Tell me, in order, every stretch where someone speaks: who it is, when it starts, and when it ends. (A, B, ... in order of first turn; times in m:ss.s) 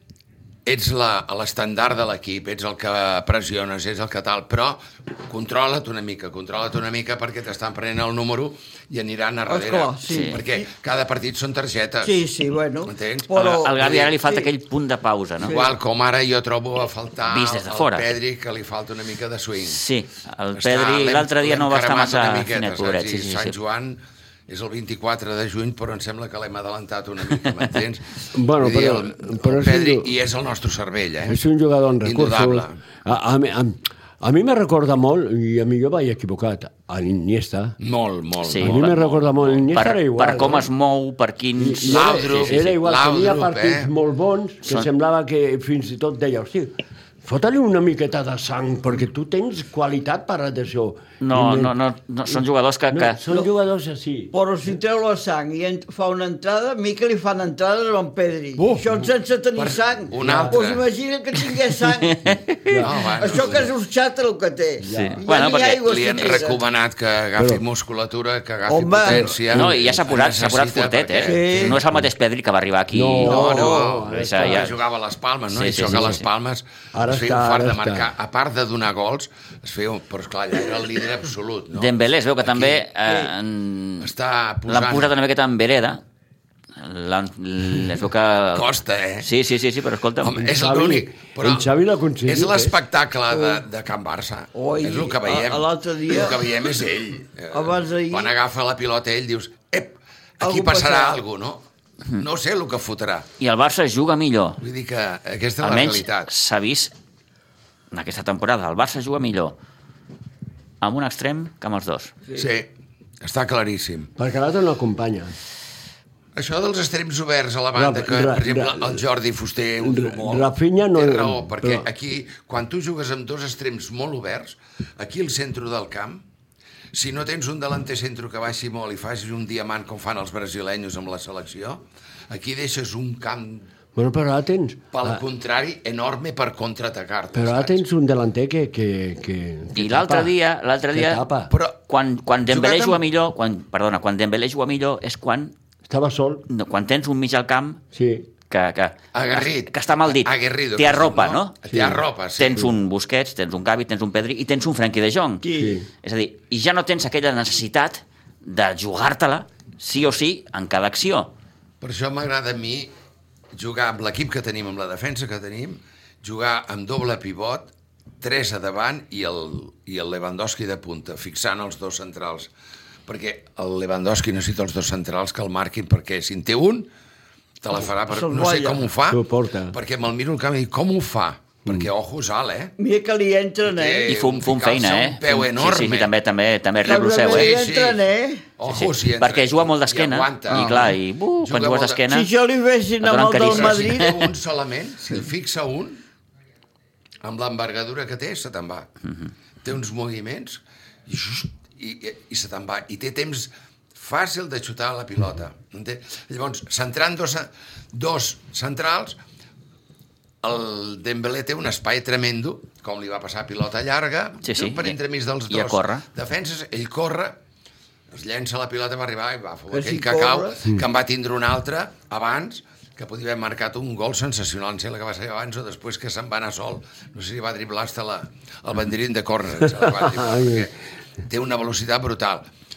0:00.6-0:12.2 A
0:09.5-0:10.7 B
0:10.1-0:10.4 C
0:12.0-0:14.5 B
0:12.8-0:14.2 A
0:13.3-0:15.6 C
0:15.4-0:19.8 A
0:15.4-0:15.7 B
0:17.2-0:18.1 C
0:19.7-0:23.6 C
0:20.6-0:31.4 A
0:28.3-0:30.1 D
0:31.3-0:37.8 D
0:32.0-0:32.8 A
0:37.8-0:39.0 A
0:38.4-0:42.7 C
0:38.6-0:40.7 D
0:41.6-0:51.7 D
0:41.9-0:43.9 A
0:51.2-0:53.2 C
0:52.3-0:54.3 D
0:54.3-1:02.3 B
0:58.6-1:00.9 A
1:00.2-1:00.6 D
1:02.0-1:02.8 C
1:02.7-1:03.4 D
1:02.8-1:03.7 A
1:03.2-1:06.6 B
1:04.8-1:05.2 D
1:04.9-1:06.4 C
1:05.6-1:11.8 A
1:07.4-1:07.6 D
1:08.7-1:09.3 B
1:09.1-1:09.7 D
1:09.5-1:13.5 C
1:11.2-1:11.8 B
1:12.9-1:14.7 D
1:13.2-1:22.8 A
1:13.3-1:13.8 B
1:14.1-1:14.7 C
1:15.5-1:16.2 C
1:15.8-1:16.2 D
1:16.9-1:18.1 D
1:21.8-1:24.1 C
1:24.0-1:25.1 A
1:24.7-1:26.0 C
1:26.8-1:28.7 C
1:28.5-1:29.3 A
1:29.2-1:30.4 C
1:30.2-1:31.7 A
1:30.4-1:32.8 D
1:32.2-1:41.6 A
1:33.3-1:33.6 B
1:34.6-1:36.4 B
1:37.5-1:38.3 B
1:40.4-1:41.2 B
1:42.2-1:43.3 A
1:43.4-1:44.6 C
1:44.6-1:46.3 A
1:45.6-1:46.9 C
1:47.9-1:49.6 C
1:50.8-1:52.2 C
1:52.3-1:52.7 A
1:53.2-1:54.1 A
1:54.2-1:55.3 D
1:56.4-2:06.2 A
1:57.7-1:59.0 D
1:59.8-2:01.9 D
2:06.9-2:13.7 A
2:14.0-2:15.2 D
2:14.9-2:17.8 A
2:17.3-2:20.3 D
2:19.8-2:21.3 C
2:20.9-2:21.5 D
2:21.5-2:21.8 A
2:21.9-2:25.6 C
2:22.5-2:23.0 A
2:25.9-2:26.5 D
2:26.5-2:27.8 C
2:27.9-2:28.3 D
2:28.5-2:31.6 C
2:29.1-2:32.7 A
2:31.7-2:32.0 D
2:32.4-2:35.5 C
2:35.4-2:35.8 B
2:35.6-2:35.9 D
2:36.0-2:41.3 C
2:41.8-2:42.9 A
2:43.5-2:52.5 A
2:53.1-2:56.9 A
2:57.6-3:02.7 A
2:58.1-2:58.9 B
2:59.1-2:59.8 D
3:02.8-3:04.1 B
3:03.6-3:06.1 A
3:04.1-3:07.6 C
3:06.8-3:08.5 B
3:07.1-3:08.0 A
3:08.6-3:12.0 A
3:08.6-3:12.3 C
3:12.1-3:14.2 B
3:13.0-3:14.2 C
3:13.4-3:16.0 A
3:17.2-3:18.9 A
3:19.6-3:29.2 A
3:30.4-3:37.4 A
3:34.4-3:35.0 C
3:35.5-3:36.0 C
3:38.1-3:50.8 A
3:39.7-3:40.6 B
3:49.8-3:50.7 D
3:51.3-3:52.5 A